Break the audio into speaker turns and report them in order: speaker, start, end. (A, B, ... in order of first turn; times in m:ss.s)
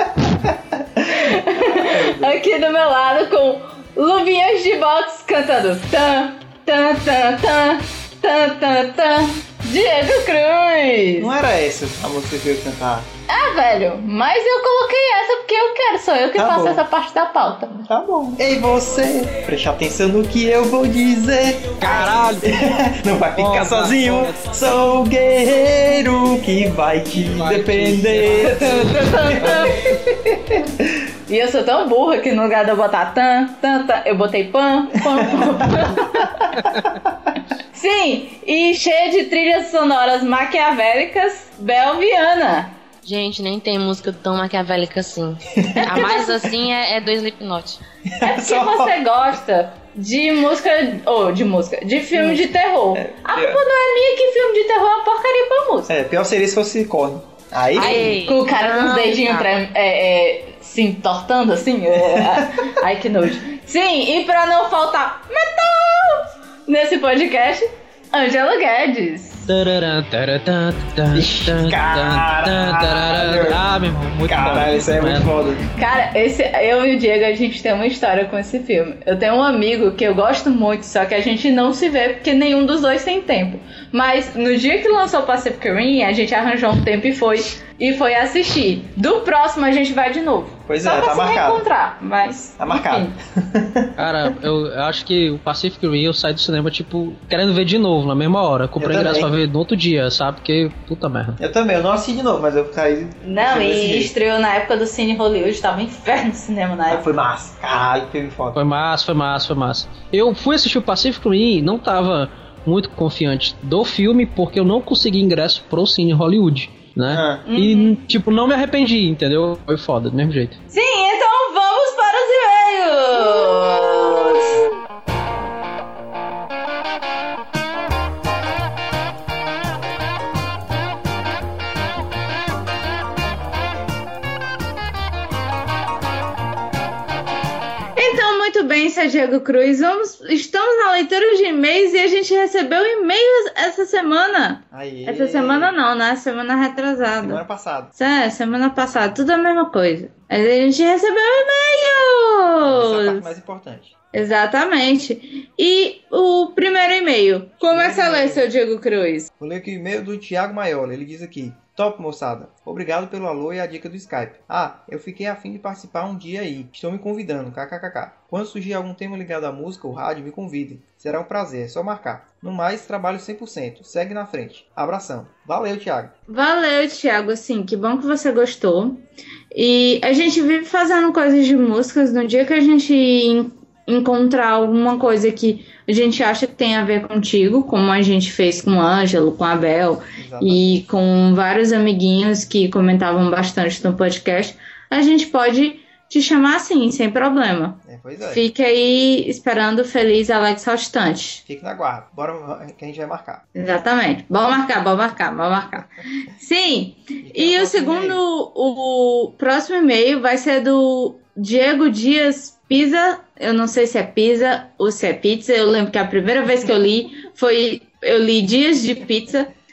0:01.0-0:02.4 A
0:01.1-0:11.3 B
0:11.2-0:13.1 A
0:13.3-0:17.7 B
0:16.4-0:16.8 A
0:17.7-0:28.8 A
0:21.8-0:22.5 C
0:23.4-0:24.4 C
0:27.2-0:28.6 C
0:28.4-0:30.0 B
0:29.3-0:30.9 A
0:31.3-0:36.5 B
0:35.0-0:36.5 A
0:37.7-0:42.8 B
0:43.0-0:47.8 D
0:45.5-0:46.2 A
0:45.8-0:46.3 B
0:48.1-0:49.0 A
0:48.2-0:55.9 B
0:52.2-0:52.4 A
0:52.9-0:53.6 A
0:55.9-0:58.2 A
0:57.7-0:59.5 D
0:57.8-1:09.5 B
1:02.0-1:02.7 A
1:09.5-1:15.3 C
1:11.1-1:13.6 A
1:14.3-1:15.6 A
1:15.7-1:33.1 B
1:30.7-1:31.6 A
1:32.6-1:34.0 A
1:34.0-1:41.4 C
1:38.8-1:39.3 A
1:41.4-1:44.1 A
1:43.2-1:47.0 B
1:46.9-1:48.6 A
1:48.5-2:00.6 C
1:57.1-1:57.5 A
1:57.4-1:58.0 B
2:00.7-2:04.6 B
2:18.0-2:27.4 B
2:24.7-2:25.7 A
2:27.2-2:27.9 A
2:28.0-2:33.3 B
2:32.6-2:33.9 A
2:34.1-2:39.3 B
2:37.6-2:38.5 A
2:39.4-2:56.1 A
2:56.3-3:21.4 B
3:10.2-3:10.8 A
3:17.8-3:18.4 A
3:21.5-3:23.5 A
3:23.6-3:39.5 B
3:27.2-3:28.2 A